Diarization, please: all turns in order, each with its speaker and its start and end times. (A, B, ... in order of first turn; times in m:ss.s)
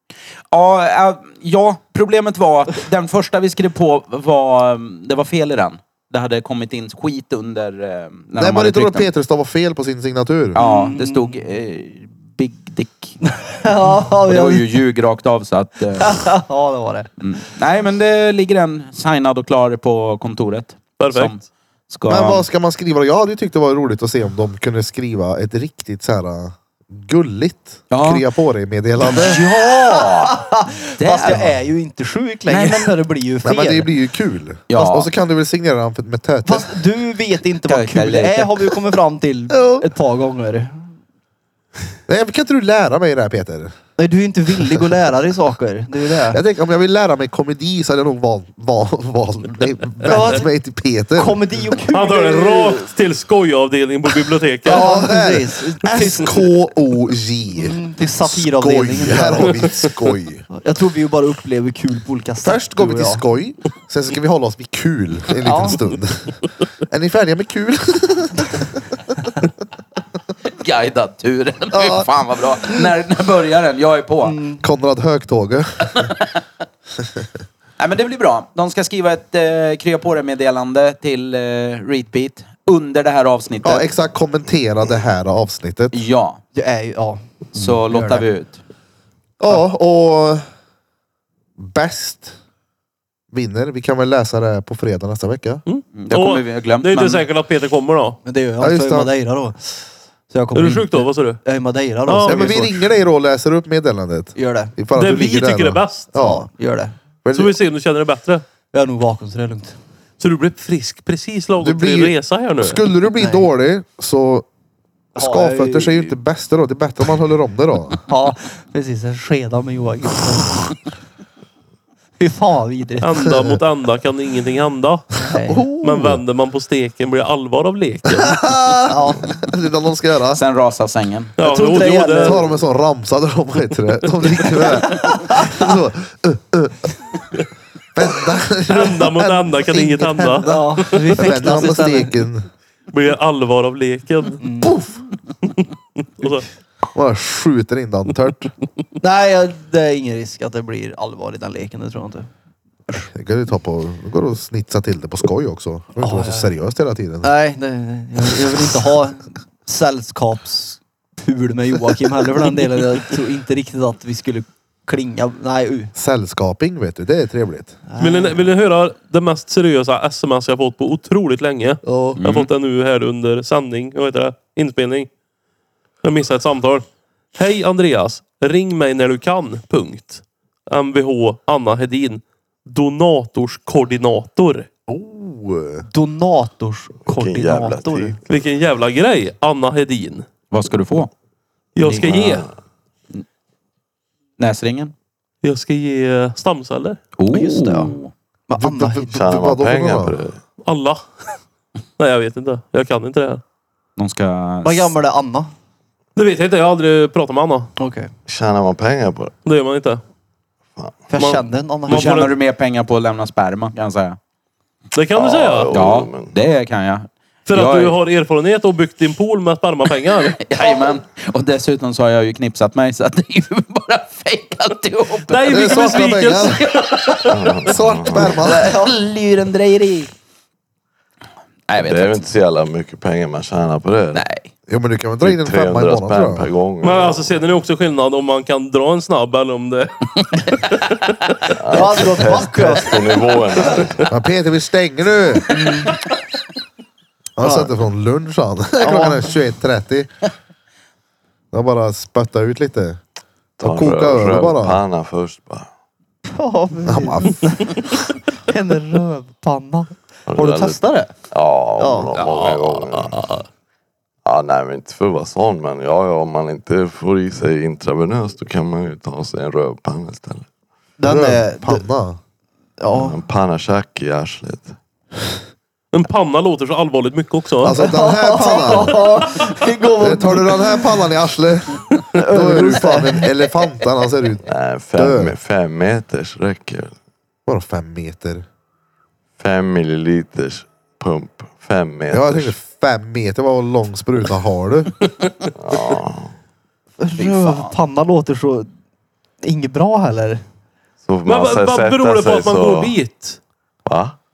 0:00.5-0:09.1 A
0:08.4-0:10.6 B
0:10.5-0:11.4 C
0:10.5-0:13.2 A
0:13.3-0:14.8 C
0:14.2-0:16.3 A
0:16.0-0:17.1 C
0:17.2-0:22.4 A
0:21.0-0:21.4 D
0:22.1-0:29.4 B
0:27.9-0:28.2 A
0:29.0-0:30.4 A
0:29.8-0:33.9 C
0:31.0-0:31.6 A
0:32.5-0:32.9 A
0:33.4-0:36.8 B
0:34.7-0:35.1 A
0:36.4-0:40.9 C
0:37.6-0:38.7 A
0:39.5-0:39.9 B
0:42.1-0:43.7 B
0:44.0-0:46.4 C
0:46.3-0:51.4 B
0:50.0-0:50.5 C
0:51.2-0:52.9 C
0:51.9-0:55.0 D
0:54.6-1:00.4 B
0:54.7-0:56.4 C
0:57.5-0:59.7 C
1:00.5-1:03.2 C
1:02.4-1:08.8 B
1:05.4-1:05.8 C
1:10.6-1:14.4 A
1:11.7-1:12.1 B
1:14.2-1:14.6 C
1:14.6-1:16.1 B
1:15.9-1:16.3 A
1:17.8-1:23.9 A
1:23.6-1:26.0 B
1:25.9-1:26.4 A
1:26.5-1:28.3 C
1:27.5-1:28.6 A
1:29.4-1:30.4 B
1:31.6-1:32.3 B
1:33.3-1:35.6 B
1:35.7-1:38.2 D
1:35.9-1:37.2 A
1:38.2-1:42.7 C
1:38.6-1:39.1 B
1:40.5-1:41.4 D
1:42.1-1:42.6 D
1:42.3-1:46.5 B
1:44.3-1:44.7 C
1:44.9-1:46.1 D
1:46.2-1:46.9 C
1:47.2-1:47.6 B
1:47.3-1:48.4 D
1:48.7-1:49.8 C
1:50.2-1:52.8 D
1:51.6-1:54.4 B
1:53.2-1:53.5 C
1:55.2-1:56.1 C
1:55.2-1:58.0 B
1:58.1-2:00.8 C
2:02.2-2:03.1 C
2:03.0-2:05.1 D
2:03.2-2:03.6 B
2:05.2-2:05.6 C
2:05.4-2:06.2 B
2:05.8-2:08.6 D
2:08.1-2:10.4 B
2:08.9-2:09.3 C
2:10.3-2:11.3 A
2:11.4-2:12.4 D
2:11.4-2:12.4 C
2:12.2-2:16.9 B
2:14.9-2:15.6 C
2:17.9-2:22.5 B
2:18.7-2:21.5 D
2:20.4-2:22.2 C
2:22.9-2:24.4 D
2:24.4-2:24.8 C
2:24.6-2:24.9 B
2:26.2-2:26.4 D
2:26.9-2:28.5 B
2:29.0-2:32.3 C
2:33.1-2:37.3 B
2:36.0-2:36.5 C
2:37.2-2:45.9 C
2:45.9-2:47.8 B
2:47.9-2:48.4 C
2:48.0-2:55.1 D
2:51.8-2:52.2 B
2:52.2-2:52.5 A
2:56.0-2:56.8 D
2:57.4-3:04.7 D
3:04.9-3:05.9 B
3:05.9-3:08.2 C
3:07.0-3:08.4 E
3:08.3-3:10.3 D
3:10.5-3:11.1 A
3:11.8-3:12.5 D
3:11.8-3:12.5 E
3:14.4-3:14.9 A
3:15.4-3:17.0 D
3:17.2-3:18.1 A
3:17.3-3:18.0 C
3:18.5-3:19.1 C
3:18.6-3:20.2 B
3:19.1-3:20.4 E
3:20.6-3:21.0 D
3:22.0-3:23.4 D
3:24.0-3:24.9 A
3:24.6-3:25.5 C
3:26.2-3:27.7 D
3:27.8-3:28.1 C
3:28.3-3:29.3 E
3:29.4-3:30.0 D
3:31.1-3:32.3 C
3:31.2-3:32.3 D
3:31.9-3:34.2 A
3:34.9-3:35.7 D
3:35.1-3:36.4 E
3:35.7-3:38.0 A
3:37.5-3:40.5 D
3:40.4-3:45.6 A
3:45.3-3:47.4 D
3:45.4-3:46.7 B
3:47.3-3:48.4 E
3:47.6-3:48.7 B
3:48.3-3:50.1 A
3:48.4-3:48.9 C
3:51.7-3:52.3 A
3:51.8-3:54.2 E
3:54.1-3:54.5 A
3:54.7-3:56.5 B
3:55.2-3:57.4 E
3:56.8-4:01.3 D
4:01.5-4:04.1 E
4:01.7-4:03.3 C
4:04.1-4:05.5 B
4:05.5-4:06.0 C
4:07.4-4:10.1 B
4:07.4-4:07.7 C
4:08.8-4:09.3 C
4:11.5-4:13.0 B
4:13.6-4:14.8 B
4:13.6-4:15.7 E
4:16.2-4:21.1 C
4:16.9-4:17.9 B
4:20.3-4:23.2 E
4:21.8-4:22.1 C
4:22.1-4:23.4 D
4:24.2-4:30.4 E
4:31.0-4:31.8 C
4:31.0-4:32.2 B
4:32.8-4:33.2 C
4:32.9-4:34.8 E
4:35.9-4:37.8 D
4:37.6-4:39.0 B
4:37.8-4:40.9 C
4:40.0-4:45.3 B
4:42.2-4:43.3 C
4:44.4-4:46.9 E
4:47.5-4:48.4 B
4:49.4-4:52.5 E
4:52.1-4:54.9 B
4:55.5-4:56.3 E
4:57.0-4:58.7 C
4:57.2-4:57.8 A
4:59.4-5:00.4 C
5:01.0-5:03.0 E
5:01.2-5:03.4 D
5:03.8-5:04.2 E